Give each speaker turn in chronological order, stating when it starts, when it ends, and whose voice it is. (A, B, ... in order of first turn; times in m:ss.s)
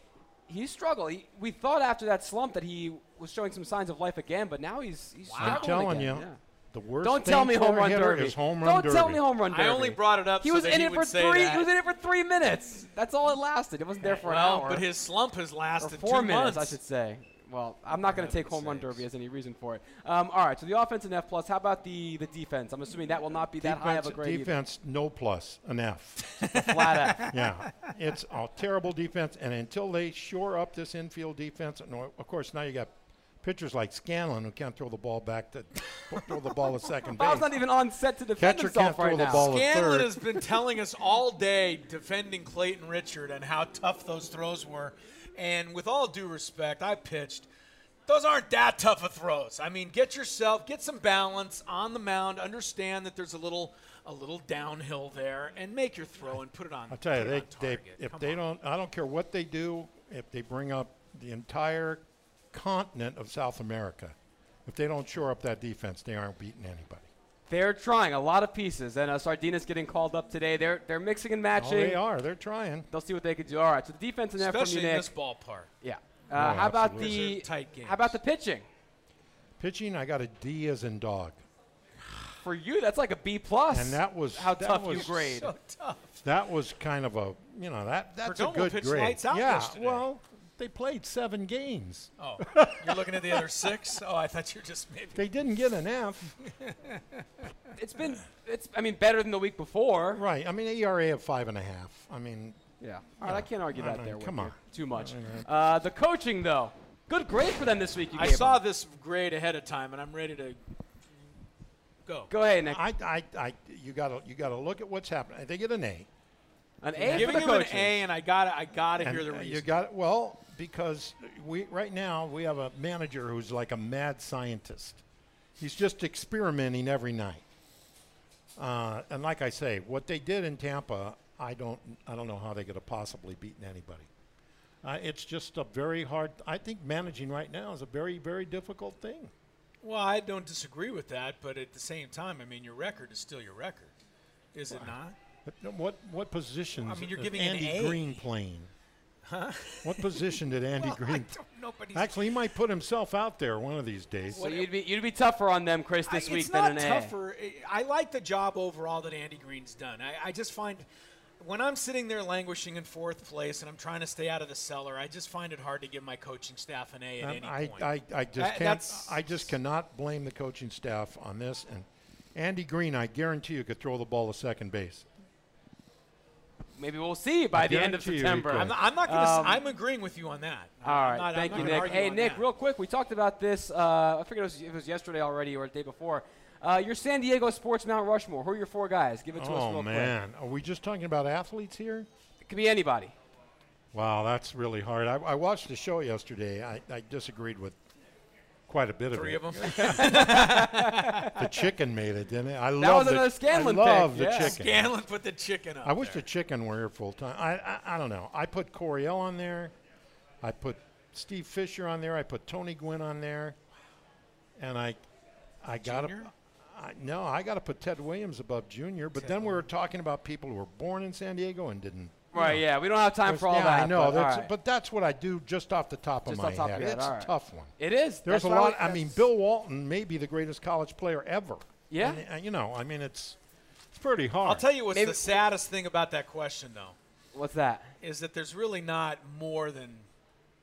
0:00.5-0:06.4 A
0:05.3-0:05.7 B
0:05.4-0:09.2 C
0:07.0-0:14.9 A
0:09.5-0:11.7 B
0:14.0-0:16.8 B
0:15.8-0:24.6 A
0:17.9-0:19.0 B
0:23.6-0:26.4 C
0:26.4-0:27.6 B
0:26.5-0:27.3 A
0:27.2-0:37.6 C
0:37.1-0:39.5 A
0:38.3-0:40.4 C
0:39.3-0:47.5 B
0:48.1-0:58.4 B
0:56.9-1:07.1 C
1:07.5-1:12.0 A
1:11.6-1:12.9 C
1:12.9-1:15.1 A
1:14.4-1:15.7 B
1:15.8-1:18.6 A
1:16.3-1:17.2 C
1:16.8-1:18.2 B
1:19.6-1:21.4 C
1:22.4-1:25.5 A
1:23.7-1:25.4 C
1:25.0-1:26.2 B
1:26.2-1:33.5 C
1:28.2-1:30.0 B
1:32.2-1:35.2 B
1:35.1-1:36.4 C
1:36.4-1:37.2 B
1:37.8-1:40.2 A
1:40.1-1:42.6 C
1:42.8-1:48.6 A
1:43.2-1:45.5 C
1:48.1-1:50.6 B
1:52.0-1:52.3 B
1:52.3-1:52.8 A
1:52.6-1:56.1 C
1:56.8-1:58.0 A
1:56.9-1:57.4 C
1:57.0-1:59.7 B
1:59.0-2:05.0 C
2:05.6-2:07.4 C
2:08.6-2:14.1 C
2:14.8-2:19.3 C
2:19.8-2:23.9 B
2:24.5-2:25.2 B
2:25.4-2:28.7 C
2:26.8-2:28.2 B
2:29.2-2:32.4 B
2:29.8-2:31.4 C
2:31.9-2:34.5 C
2:34.3-2:34.7 B
2:34.4-2:37.1 A
2:36.0-2:40.8 B
2:41.4-2:49.5 B
2:47.2-2:55.1 C
2:56.7-2:59.6 A
2:57.5-2:58.8 C
2:58.5-3:02.5 B
3:00.8-3:10.1 A
3:01.5-3:02.0 C
3:09.3-3:12.1 C
3:12.4-3:13.1 A
3:13.9-3:17.8 C
3:18.7-3:20.4 C
3:19.1-3:21.4 B
3:19.6-3:21.1 A
3:21.2-3:24.9 C
3:22.8-3:24.6 A
3:24.2-3:26.2 B
3:25.8-3:29.7 C
3:30.4-3:33.6 C
3:34.6-3:35.0 C
3:35.6-3:42.6 C
3:35.8-3:36.3 B
3:39.2-3:39.6 B
3:42.3-3:44.5 A
3:43.2-3:47.7 C
3:46.2-3:49.3 A
3:48.2-3:53.4 C
3:51.9-3:52.2 A
3:53.9-3:54.7 C
3:54.4-3:57.0 B
3:54.9-3:55.4 A
3:57.3-3:57.9 A
3:58.0-4:00.1 B